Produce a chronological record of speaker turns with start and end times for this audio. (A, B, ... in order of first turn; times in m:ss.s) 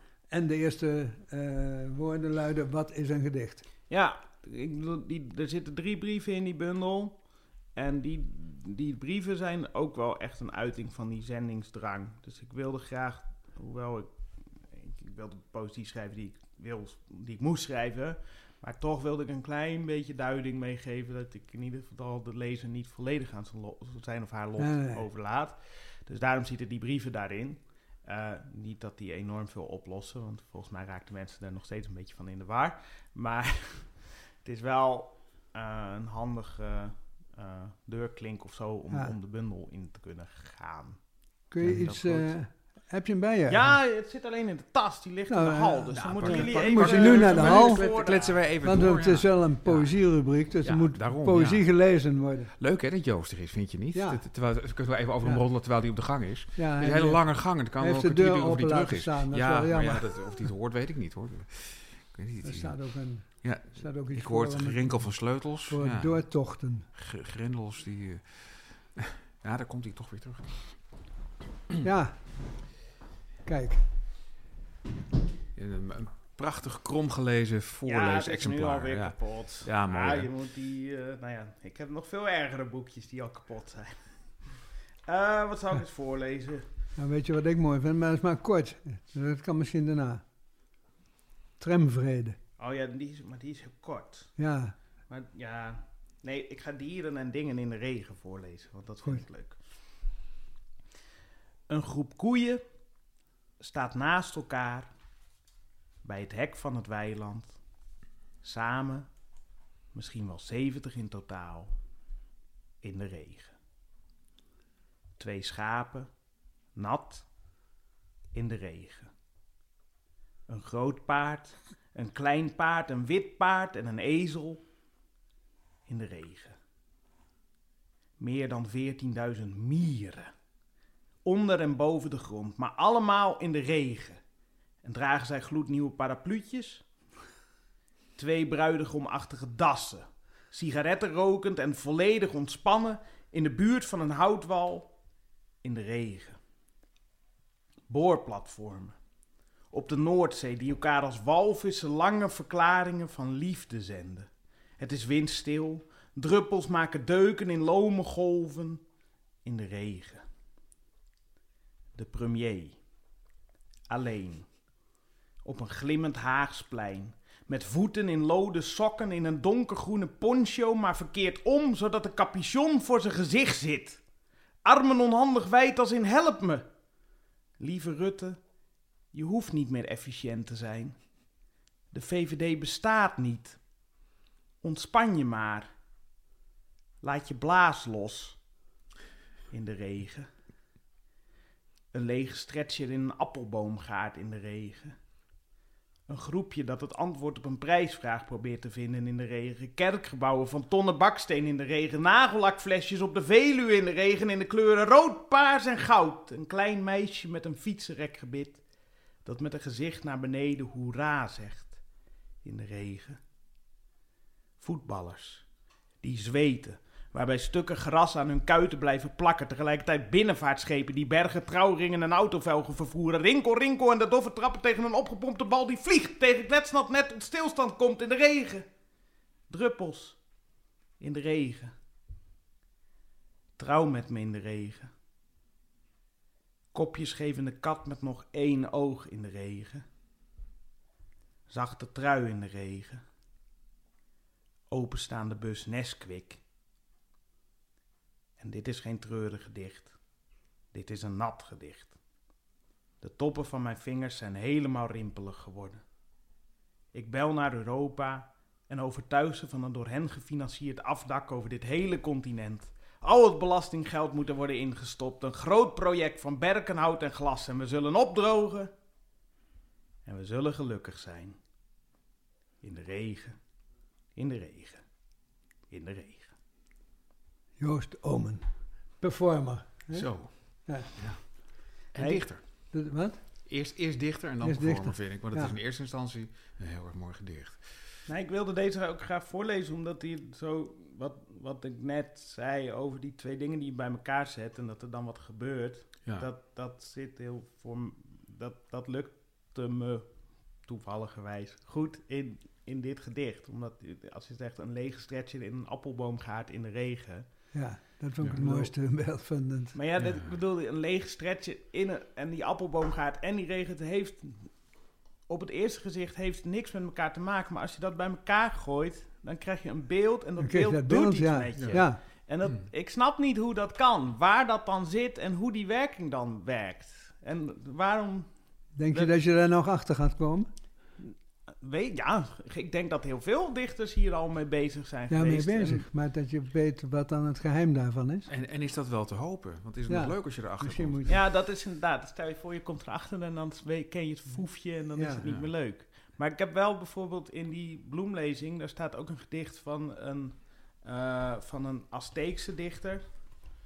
0:00.3-0:03.6 A
0:03.9-0:41.0 B
0:24.6-0:25.0 A
0:41.5-0:43.7 A
0:41.6-0:42.3 B
0:41.6-0:41.9 C
0:43.5-0:48.5 B
0:45.3-0:48.0 A
0:45.9-0:51.7 C
0:48.6-0:52.5 A
0:52.6-1:10.9 C
0:53.9-0:54.3 A
0:56.5-1:00.5 A
1:02.4-1:06.8 A
1:11.8-1:12.5 A
1:13.4-1:13.8 A
1:15.5-1:20.3 C
1:17.8-1:24.5 B
1:25.0-1:26.6 B
1:27.0-1:30.2 A
1:31.6-1:32.4 A
1:32.6-1:34.5 B
1:34.4-1:34.7 A
1:35.1-1:39.6 B
1:41.7-1:42.6 B
1:43.6-1:44.9 B
1:46.0-1:47.6 B
1:48.4-1:49.1 B
1:49.9-1:51.7 B
1:52.8-1:53.5 B
1:55.2-1:56.1 B
1:56.7-1:57.3 B
1:58.3-1:59.1 B
2:00.5-2:04.6 B
2:05.9-2:06.6 B
2:08.2-2:10.3 B
2:11.2-2:14.2 B
2:14.8-2:16.9 B
2:18.2-2:24.9 B
2:25.6-2:26.4 B
2:27.9-2:29.0 B
2:29.7-2:38.8 B
2:39.4-2:40.2 B
2:41.9-2:42.8 B
2:43.9-2:44.6 B
2:45.4-2:54.0 B
2:54.6-2:56.7 B
2:57.6-2:58.4 B
2:59.1-3:01.2 B
3:01.9-3:03.6 B
3:04.6-3:05.7 B
3:07.0-3:08.4 B
3:09.5-3:10.3 B
3:11.9-3:14.9 B
3:16.1-3:28.6 B
3:29.2-3:31.8 B
3:32.4-3:33.2 B
3:34.6-3:35.5 B
3:36.0-3:48.7 B
3:49.5-3:50.2 B
3:51.0-3:51.7 B
3:53.6-3:54.9 B
3:56.7-3:59.8 B
4:01.5-4:03.0 B
4:04.7-4:06.4 B
4:08.4-4:09.9 B
4:10.7-4:12.0 B
4:13.0-4:15.8 B
4:16.9-4:28.7 B
4:30.0-4:31.4 B
4:32.6-4:33.4 B
4:34.1-4:34.8 B
4:35.7-4:36.3 B
4:37.6-4:38.4 A
4:39.0-4:40.9 A
4:39.9-4:42.7 C
4:42.0-4:42.3 B
4:42.7-4:43.2 A
4:43.4-4:47.9 C
4:44.4-4:45.6 A
4:48.1-5:07.3 B
5:07.5-5:09.8 A
5:08.4-5:08.7 B
5:09.7-5:14.6 B
5:10.0-5:10.4 C
5:15.3-5:28.4 B
5:20.4-5:22.0 A
5:21.6-5:21.8 C
5:28.7-5:30.5 A
5:31.0-5:35.9 B
5:35.1-5:38.3 A
5:38.3-5:41.1 C
5:39.9-5:41.2 A
5:41.0-5:53.4 B
5:44.9-5:45.2 A
5:45.2-5:45.5 C